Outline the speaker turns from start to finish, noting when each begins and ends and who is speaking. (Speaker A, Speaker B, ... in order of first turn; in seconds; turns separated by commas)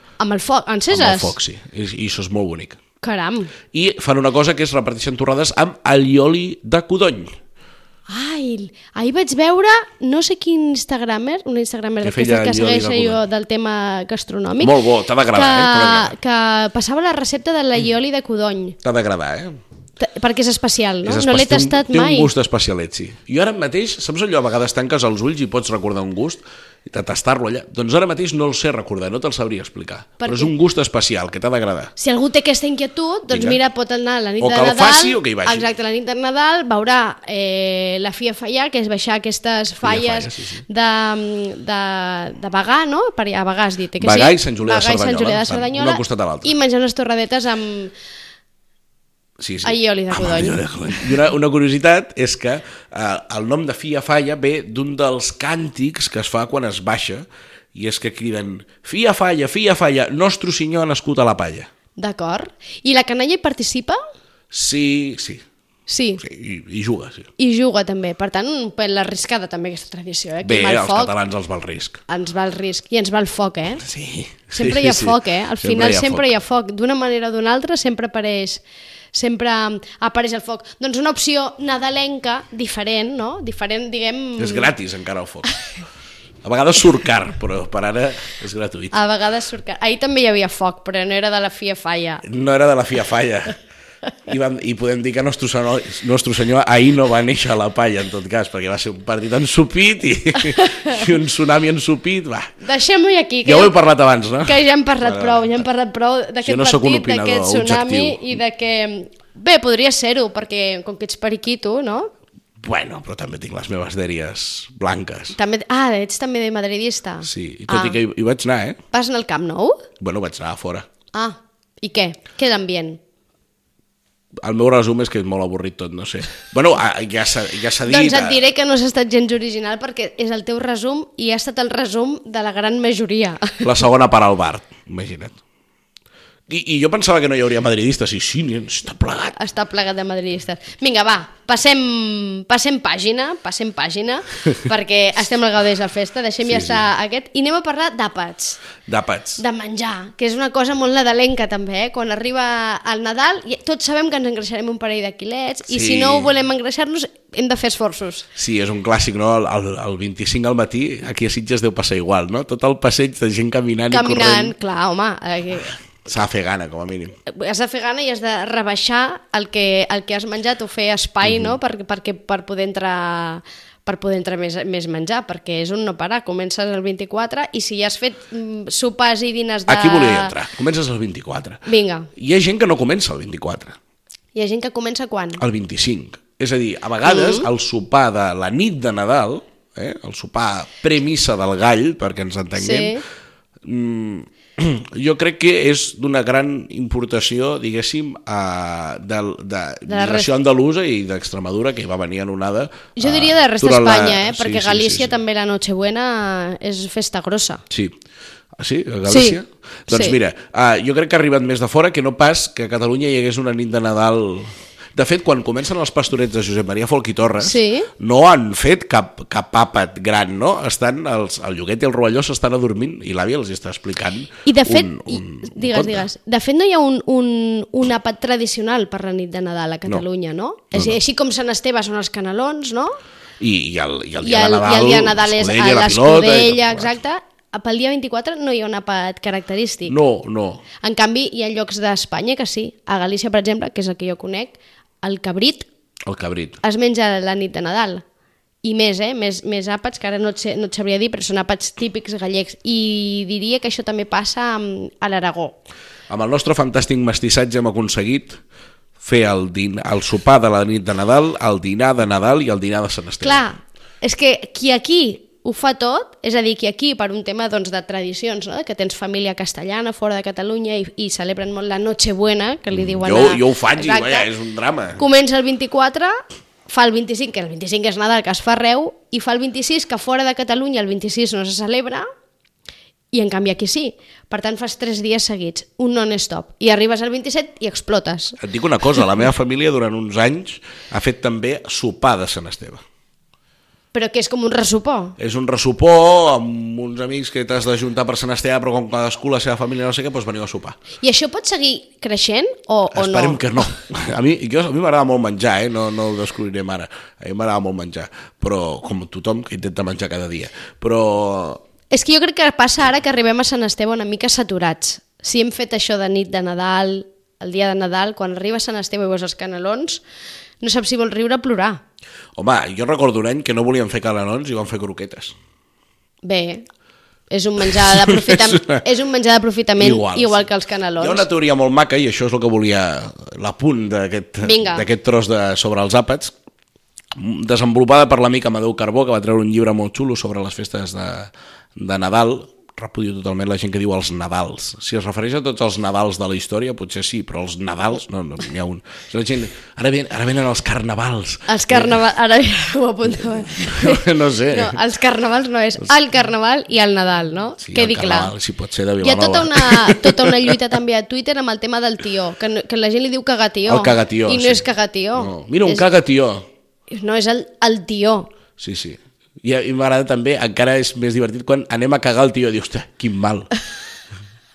Speaker A: 0.2-1.4, Speaker B: 0.9-2.8, Speaker A: 3.0-3.5, Speaker B: 3.7-7.4, Speaker A: 8.1-14.8, Speaker B: 12.0-13.2, Speaker B: 14.6-16.1, Speaker A: 15.3-18.8, Speaker B: 18.8-19.6, Speaker A: 20.0-22.3, Speaker B: 21.0-31.9, Speaker A: 30.2-30.5, Speaker A: 32.0-47.9, Speaker B: 33.3-33.6, Speaker B: 34.4-35.7, Speaker B: 39.8-40.6, Speaker B: 44.0-46.5, Speaker B: 49.4-61.7, Speaker A: 49.6-51.1, Speaker A: 62.0-64.0, Speaker B: 64.5-65.4, Speaker A: 65.9-66.2, Speaker B: 66.2-67.3, Speaker A: 67.4-71.1, Speaker B: 70.4-72.0, Speaker A: 72.1-73.8, Speaker B: 73.8-76.3, Speaker A: 74.5-78.6, Speaker A: 79.1-84.7, Speaker B: 84.4-85.5, Speaker B: 86.4-89.0, Speaker A: 88.9-92.2, Speaker B: 92.2-93.6, Speaker B: 94.3-102.5, Speaker A: 100.5-101.0, Speaker A: 102.6-103.8, Speaker B: 103.4-105.7, Speaker A: 104.5-112.1, Speaker B: 106.4-108.4, Speaker B: 112.6-115.4, Speaker A: 115.3-118.0, Speaker B: 117.2-118.8, Speaker A: 118.9-119.8, Speaker B: 120.0-120.9, Speaker A: 121.1-123.0, Speaker B: 124.4-128.4, Speaker A: 127.8-133.7, Speaker B: 133.6-135.4, Speaker B: 136.5-139.3, Speaker A: 139.3-148.6, Speaker B: 146.4-146.9, Speaker B: 148.9-149.4, Speaker A: 149.4-158.3, Speaker B: 155.7-156.3, Speaker B: 158.4-164.6, Speaker A: 163.9-165.8, Speaker B: 166.0-167.2, Speaker A: 167.3-180.3, Speaker B: 171.2-171.6, Speaker B: 179.7-183.8, Speaker A: 181.7-182.1, Speaker A: 184.3-185.4, Speaker B: 185.4-193.0, Speaker A: 187.1-187.5, Speaker A: 192.6-193.0, Speaker B: 193.6-205.1, Speaker A: 199.9-200.3, Speaker A: 203.0-207.6, Speaker B: 207.7-207.9, Speaker B: 208.6-226.1, Speaker A: 209.1-209.4, Speaker A: 209.9-210.2, Speaker A: 217.4-217.9, Speaker A: 224.4-233.0, Speaker B: 230.7-231.0, Speaker B: 233.4-236.9, Speaker A: 234.2-240.0, Speaker B: 239.9-240.6, Speaker A: 240.8-245.7, Speaker B: 246.1-246.6, Speaker A: 246.6-248.0, Speaker A: 248.6-255.6, Speaker B: 256.1-258.4, Speaker B: 259.0-263.4, Speaker A: 263.2-274.3, Speaker B: 272.7-275.0, Speaker A: 275.0-282.1, Speaker A: 283.1-288.4, Speaker B: 288.4-292.8, Speaker A: 293.9-295.2, Speaker B: 295.2-300.8, Speaker A: 301.0-303.4, Speaker B: 302.9-311.6, Speaker A: 311.9-320.0, Speaker A: 320.6-321.8, Speaker B: 322.4-325.4, Speaker A: 326.2-326.7, Speaker A: 327.3-331.2, Speaker B: 327.8-328.8, Speaker B: 329.8-336.3, Speaker A: 334.4-334.9, Speaker B: 337.1-352.0, Speaker A: 351.5-358.3, Speaker B: 353.5-354.8, Speaker B: 357.6-360.6, Speaker A: 359.0-365.8, Speaker B: 363.7-364.6, Speaker B: 365.2-366.5, Speaker A: 366.9-368.3, Speaker B: 368.6-373.5